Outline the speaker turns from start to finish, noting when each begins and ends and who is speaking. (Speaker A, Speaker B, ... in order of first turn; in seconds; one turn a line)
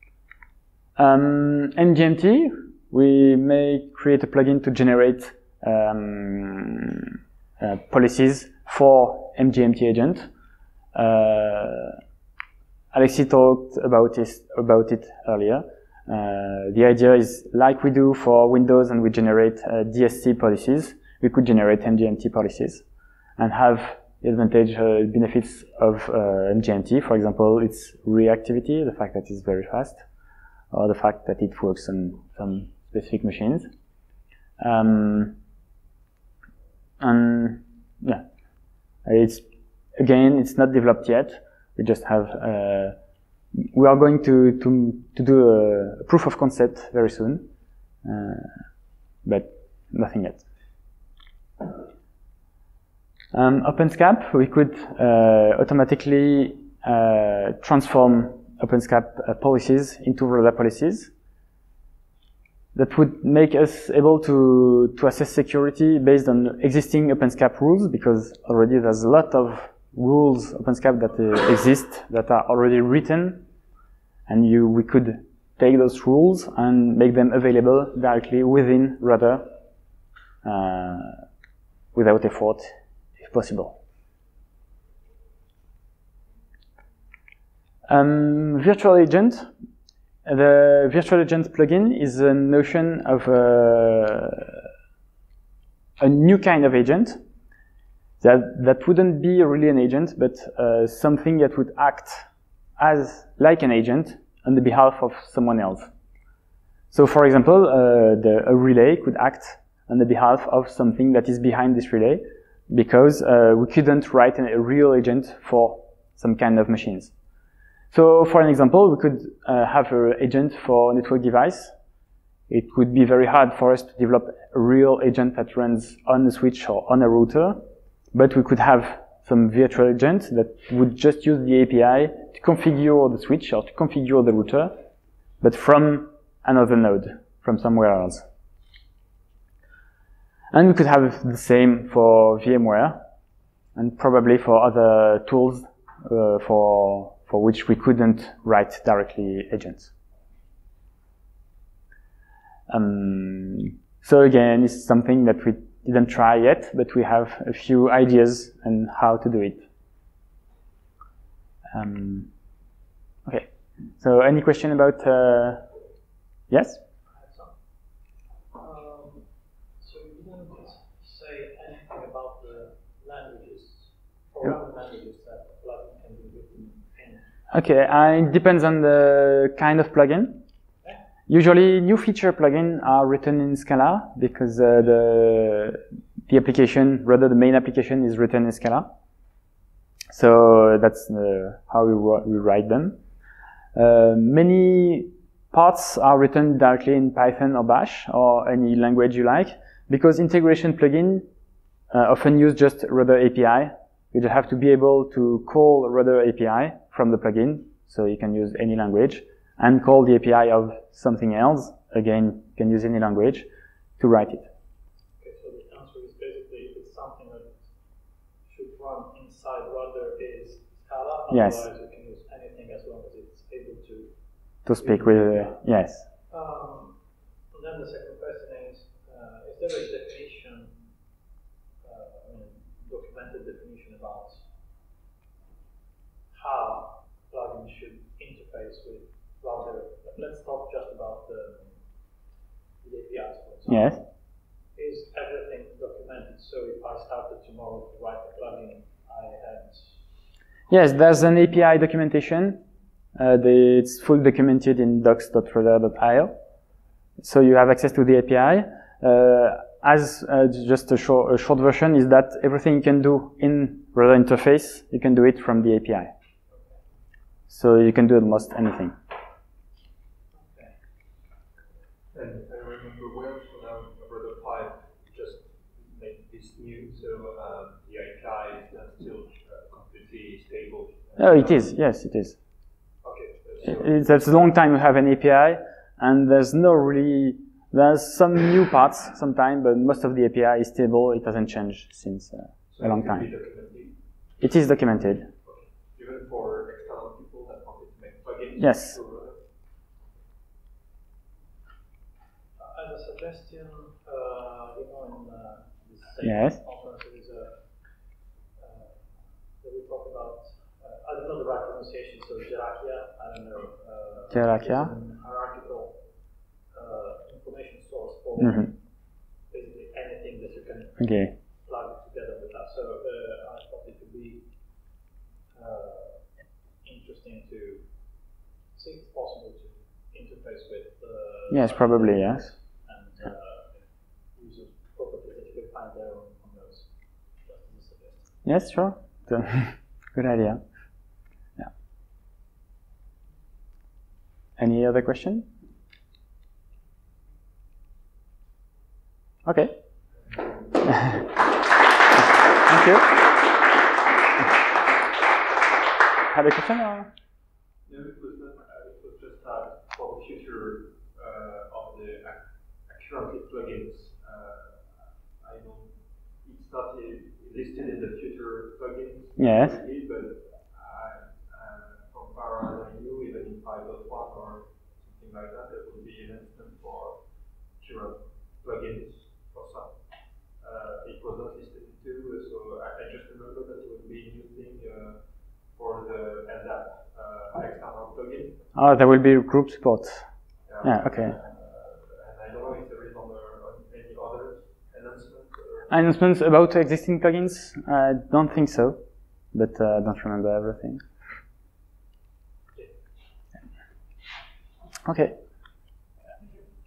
Speaker A: 1.0-7.1
Speaker A: 7.6-10.3
Speaker A: 10.9-12.0
Speaker A: 12.9-22.8
Speaker A: 23.4-30.0
Speaker A: 30.7-33.7
Speaker A: 34.6-35.4
Speaker A: 37.0-38.2
Speaker A: 39.0-39.4
Speaker A: 40.0-43.0
Speaker A: 43.6-47.5
Speaker A: 48.0-48.6
Speaker A: 49.2-50.4
Speaker A: 53.3-61.1
Speaker A: 62.7-73.4
Speaker A: 74.3-79.5
Speaker A: 80.4-81.2
Speaker A: 81.9-83.8
Speaker A: 87.9-89.5
Speaker A: 90.2-94.6
Speaker A: 96.0-97.2
Speaker A: 98.2-102.2
Speaker A: 102.8-105.9
Speaker A: 106.9-117.1
Speaker A: 117.9-121.7
Speaker A: 122.5-127.6
Speaker A: 128.1-134.7
Speaker A: 135.4-138.2
Speaker A: 140.5-143.0
Speaker A: 143.8-149.9
Speaker A: 152.7-159.6
Speaker A: 161.7-162.3
Speaker A: 163.2-165.6
Speaker A: 166.5-166.8
Speaker B: 167.1-167.5
Speaker B: 168.5-169.3
Speaker B: 169.8-177.2
Speaker A: 177.5-180.4
Speaker A: 181.3-188.9
Speaker A: 190.1-193.0
Speaker A: 193.7-201.2
Speaker A: 201.9-213.4
Speaker A: 214.0-214.5
Speaker B: 215.2-217.7
Speaker B: 218.4-224.1
Speaker A: 221.3-221.6
Speaker A: 224.7-226.0
Speaker B: 224.8-225.6
Speaker B: 226.3-227.0
Speaker B: 227.5-230.8
Speaker B: 231.8-234.4
Speaker B: 236.3-241.8
Speaker B: 242.8-244.1
Speaker A: 243.7-244.0
Speaker B: 244.7-250.0
Speaker A: 250.7-252.6
Speaker A: 253.2-256.3
Speaker A: 257.2-266.1
Speaker A: 267.5-268.9
Speaker B: 270.3-270.7
Speaker C: 272.1-281.6
Speaker A: 281.2-282.4
Speaker C: 283.0-284.3
Speaker A: 283.6-293.3
Speaker C: 292.7-293.9
Speaker A: 294.4-295.3
Speaker C: 295.4-299.4
Speaker A: 298.6-299.0
Speaker B: 302.6-307.6
Speaker A: 306.2-306.6
Speaker B: 308.6-316.0
Speaker A: 314.3-314.9
Speaker B: 316.7-318.8
Speaker A: 318.4-318.7
Speaker B: 319.5-324.4
Speaker A: 321.0-321.3
Speaker B: 325.5-326.3
Speaker B: 326.8-327.9
Speaker B: 328.7-338.3
Speaker A: 331.5-332.5
Speaker A: 338.4-340.6
Speaker A: 344.6-345.5
Speaker A: 349.4-349.7
Speaker C: 350.2-350.8
Speaker A: 352.6-353.1
Speaker A: 356.3-357.1
Speaker C: 357.8-377.2
Speaker A: 369.4-369.8
Speaker C: 377.8-380.0
Speaker C: 380.6-388.7
Speaker A: 388.7-390.3
Speaker C: 390.6-395.9
Speaker A: 390.8-391.3
Speaker A: 395.9-399.0
Speaker A: 399.5-401.0
Speaker A: 405.0-405.4